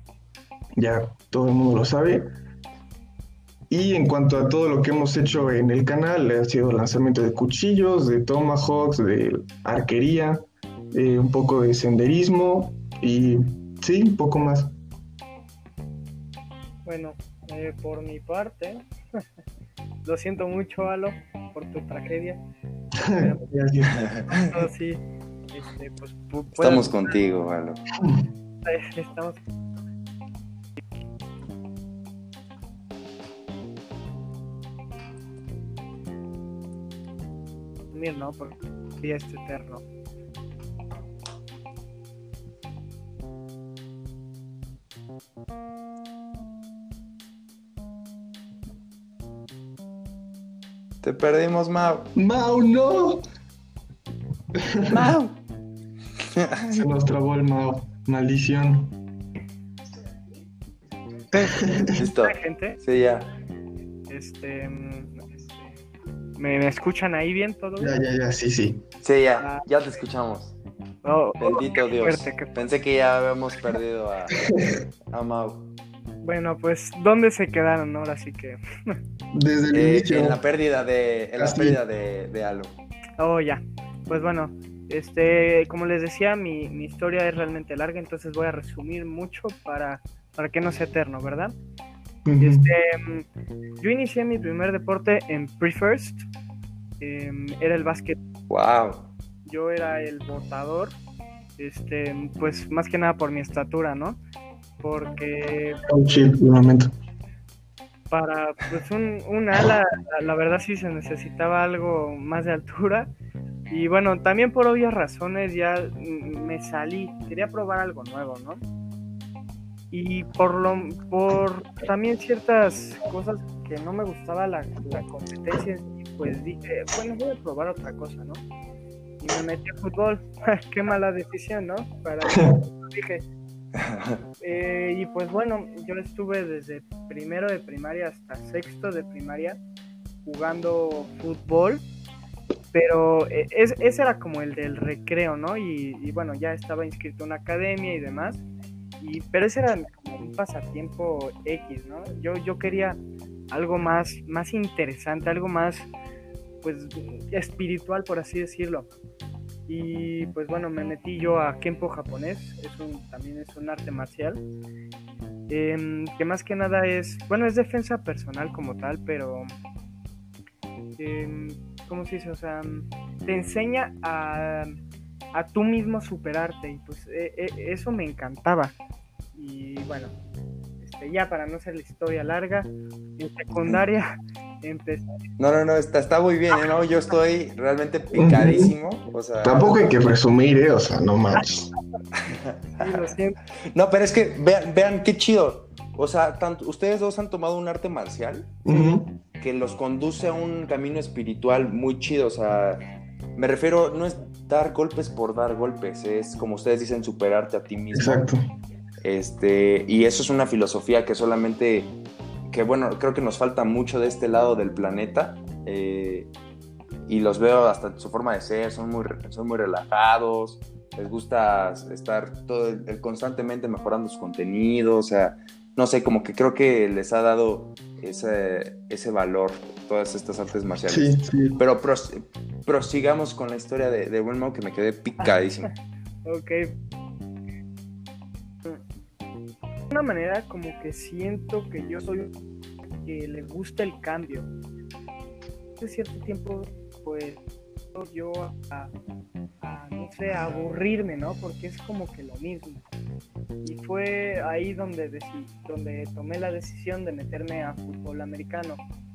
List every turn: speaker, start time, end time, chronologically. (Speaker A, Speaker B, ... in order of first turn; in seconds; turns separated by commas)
Speaker A: 0.8-2.3, Speaker A: 3.7-14.7, Speaker B: 16.8-18.8, Speaker B: 20.0-22.4, Speaker A: 23.0-24.1, Speaker B: 23.1-23.5, Speaker C: 24.0-24.3, Speaker B: 24.2-27.2, Speaker C: 26.6-27.8, Speaker B: 28.6-29.4, Speaker B: 37.9-39.8, Speaker C: 51.0-52.1, Speaker A: 52.1-53.2, Speaker A: 54.6-55.1, Speaker C: 54.9-55.4, Speaker C: 56.3-56.9, Speaker A: 56.7-58.9, Speaker B: 61.3-62.8, Speaker A: 61.6-61.9, Speaker C: 61.9-63.3, Speaker B: 64.1-65.7, Speaker B: 66.4-68.0, Speaker A: 67.8-68.8, Speaker C: 69.0-70.6, Speaker B: 69.4-69.6, Speaker B: 71.0-72.6, Speaker C: 71.4-74.5, Speaker A: 74.5-74.8, Speaker C: 75.1-75.7, Speaker B: 76.2-78.9, Speaker A: 79.3-80.4, Speaker C: 79.7-82.8, Speaker A: 81.4-81.8, Speaker B: 83.2-91.5, Speaker A: 92.2-92.7, Speaker B: 92.4-93.2, Speaker B: 93.8-96.2, Speaker B: 97.0-98.2, Speaker C: 98.5-99.1, Speaker B: 99.5-101.0, Speaker B: 101.6-104.2, Speaker B: 104.8-106.3, Speaker A: 105.9-106.9, Speaker B: 108.1-113.1, Speaker B: 113.7-118.6, Speaker B: 119.9-128.4, Speaker B: 129.2-133.3, Speaker C: 133.8-134.2, Speaker B: 134.4-139.6, Speaker B: 140.2-141.8, Speaker B: 142.7-148.4, Speaker B: 149.0-153.0, Speaker B: 153.5-155.9, Speaker B: 156.6-158.9, Speaker B: 159.7-164.4, Speaker B: 165.5-169.5, Speaker B: 171.0-174.8, Speaker B: 175.3-178.7, Speaker B: 179.3-180.1, Speaker B: 180.8-184.1, Speaker B: 184.6-185.1, Speaker C: 185.4-189.9, Speaker A: 188.1-188.7, Speaker A: 189.4-191.7, Speaker C: 192.2-193.1, Speaker B: 192.8-193.4, Speaker C: 193.7-198.6, Speaker A: 198.6-199.2, Speaker B: 198.7-199.0, Speaker C: 199.4-202.8, Speaker C: 203.3-208.2, Speaker A: 207.9-208.4, Speaker C: 209.0-211.9, Speaker C: 212.5-216.3, Speaker C: 217.1-235.7, Speaker A: 230.9-231.6, Speaker B: 236.2-236.7, Speaker B: 239.9-242.3, Speaker B: 242.9-244.5, Speaker B: 245.8-247.4, Speaker B: 247.9-248.9, Speaker B: 249.6-252.8, Speaker B: 253.6-258.8